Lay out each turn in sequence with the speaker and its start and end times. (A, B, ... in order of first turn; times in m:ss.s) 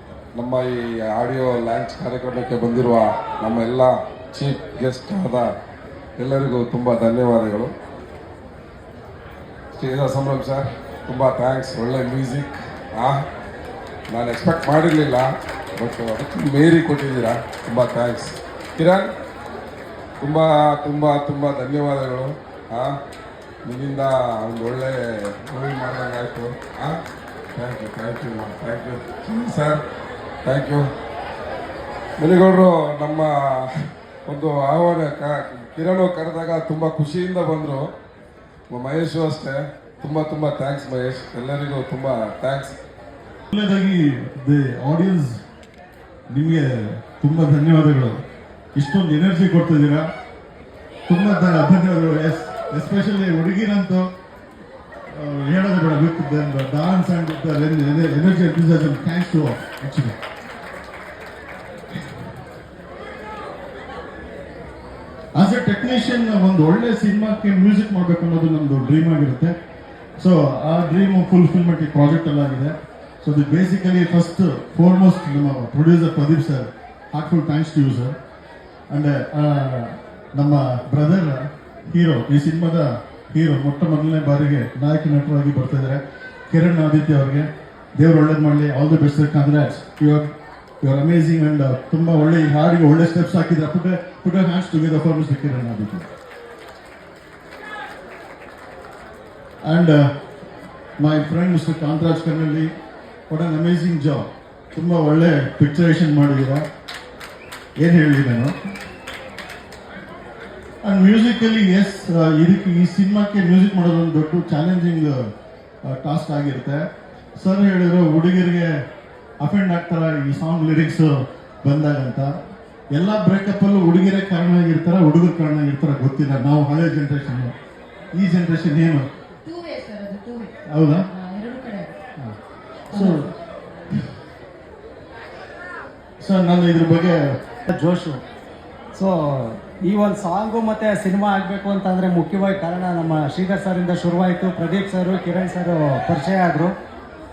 0:00.4-0:05.5 A
0:06.2-0:07.7 A
0:09.7-0:13.2 A
0:14.1-0:19.1 A
0:20.2-0:23.0 A
0:23.6-0:27.0 A
0:27.5-0:29.8 A
0:30.4-0:30.9 A
0:32.2-0:33.3 A
0:34.2-0:37.9 A
0:38.7-0:42.8 A
0:43.5-0:45.4 B
0:46.3-0:48.2 B
0:48.7-0:50.1 B
0:51.1-0:54.1 B
0:55.1-1:00.2 B
1:05.3-1:09.6 B
1:10.2-1:18.1 B
1:18.9-1:30.3 B
1:30.8-1:36.1 B
1:39.6-1:40.1 B
1:41.0-1:42.7 B
1:43.3-1:46.6 B
1:47.8-1:48.5 B
1:50.8-1:55.3 B
1:55.8-1:58.8 B
1:59.4-2:02.4 B
2:02.9-2:07.5 B
2:08.1-2:09.1 B
2:09.4-2:10.5 C
2:10.6-2:11.1 B
2:11.1-2:11.9 C
2:12.9-2:13.3 B
2:12.9-2:13.2 C
2:16.2-2:17.4 B
2:17.7-2:18.2 D
2:18.9-2:26.8 D